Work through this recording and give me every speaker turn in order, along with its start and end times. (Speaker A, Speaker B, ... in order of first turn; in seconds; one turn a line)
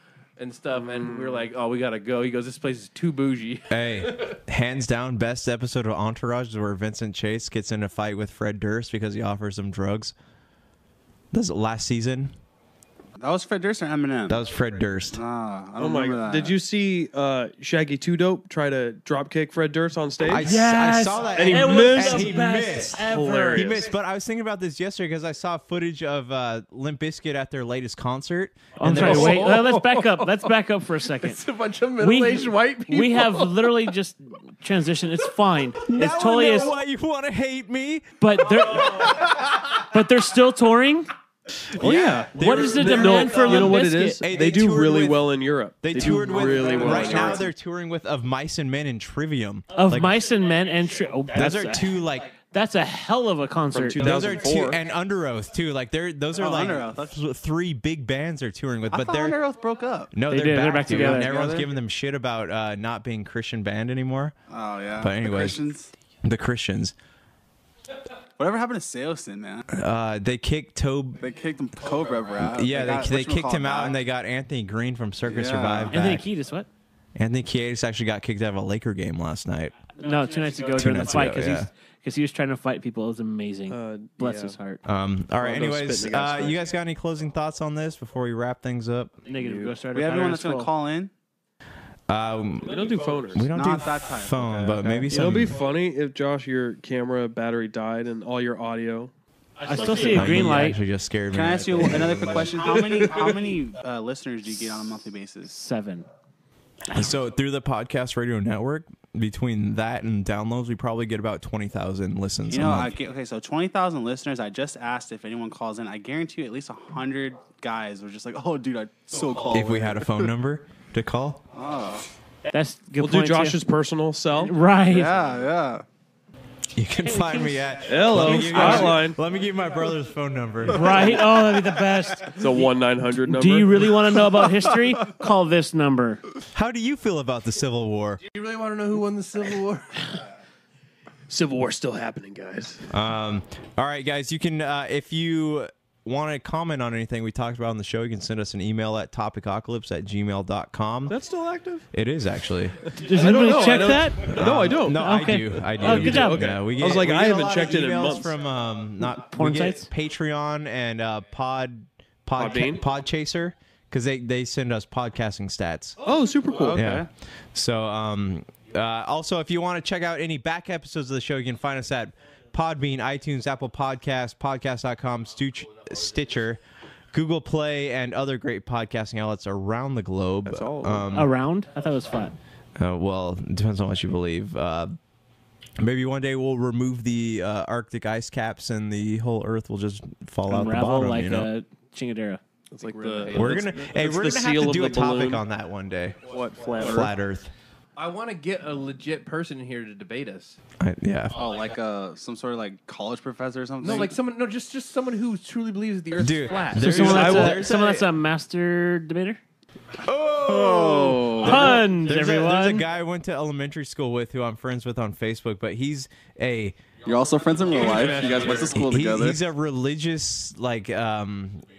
Speaker A: 0.4-4.3
Speaker B: 0.9-1.4
Speaker C: 3.7-10.1
Speaker C: 11.3-12.3
Speaker D: 13.2-14.4
Speaker C: 14.3-15.2
Speaker D: 15.1-16.6
Speaker B: 15.8-20.5
Speaker C: 20.2-29.5
Speaker E: 20.4-23.8
Speaker B: 21.3-22.4
Speaker B: 23.0-23.8
Speaker E: 28.8-31.4
Speaker A: 28.9-30.5
Speaker A: 31.1-33.7
Speaker E: 32.0-36.7
Speaker C: 35.8-39.2
Speaker E: 38.2-41.1
Speaker B: 41.8-47.5
Speaker C: 41.8-50.2
Speaker E: 42.3-44.2
Speaker D: 46.0-47.4
Speaker E: 49.7-52.0
Speaker C: 51.3-52.3
Speaker E: 52.5-54.1
Speaker B: 53.7-54.8
Speaker C: 54.0-59.4
Speaker D: 56.3-57.2
Speaker D: 58.9-60.1
Speaker C: 60.1-64.3
Speaker E: 60.3-61.3
Speaker D: 60.8-61.7
Speaker D: 64.5-65.9
Speaker C: 65.0-65.7
Speaker C: 66.2-66.9
Speaker D: 68.4-69.7
Speaker C: 69.7-71.2
Speaker D: 71.2-74.0
Speaker C: 72.4-76.3
Speaker D: 75.2-76.0
Speaker E: 75.9-76.7
Speaker C: 77.2-79.8
Speaker E: 79.9-84.8
Speaker C: 80.7-81.7
Speaker B: 83.7-84.6
Speaker C: 84.8-89.2
Speaker B: 85.4-86.6
Speaker E: 89.2-90.7
Speaker B: 89.4-89.7
Speaker D: 89.9-91.1
Speaker C: 92.1-95.6
Speaker B: 92.7-93.5
Speaker D: 93.5-94.8
Speaker E: 94.8-95.1
Speaker B: 95.1-99.1
Speaker E: 99.6-100.8
Speaker C: 100.0-102.6
Speaker D: 101.3-105.5
Speaker B: 102.8-103.2
Speaker E: 105.5-106.1
Speaker C: 106.9-113.0
Speaker D: 112.5-120.3
Speaker C: 119.5-121.4
Speaker D: 121.5-122.0
Speaker E: 122.5-123.6
Speaker B: 123.0-124.5
Speaker E: 124.3-125.1
Speaker D: 124.9-125.8
Speaker C: 126.7-131.2
Speaker E: 127.0-129.0
Speaker B: 127.8-129.2
Speaker E: 130.6-132.7
Speaker B: 132.4-134.0
Speaker E: 133.2-136.2
Speaker C: 136.5-138.2
Speaker A: 138.3-140.2
Speaker B: 141.3-142.9
Speaker C: 142.9-151.2
Speaker B: 151.1-151.9
Speaker C: 151.9-152.9
Speaker E: 153.0-154.3
Speaker B: 153.1-155.1
Speaker C: 154.2-166.0
Speaker E: 154.9-156.5
Speaker B: 155.6-158.4
Speaker E: 159.0-159.9
Speaker B: 162.3-162.8
Speaker B: 166.0-166.8
Speaker D: 166.4-167.1
Speaker C: 166.7-176.6
Speaker C: 177.1-181.3
Speaker B: 180.4-181.1
Speaker E: 181.1-182.3
Speaker C: 182.8-184.9
Speaker C: 185.8-191.5
Speaker E: 190.5-192.4
Speaker B: 192.7-195.4
Speaker A: 192.8-193.7
Speaker C: 193.3-197.5
Speaker B: 196.3-197.1
Speaker A: 197.9-200.6
Speaker C: 200.8-201.4
Speaker D: 201.3-204.2
Speaker A: 203.8-207.5
Speaker C: 206.2-208.1
Speaker B: 206.8-207.6
Speaker E: 206.8-209.4
Speaker C: 210.0-216.8
Speaker D: 210.2-211.7
Speaker E: 211.4-212.9
Speaker D: 217.0-219.4
Speaker B: 217.7-218.6
Speaker C: 217.7-221.7
Speaker A: 217.7-218.8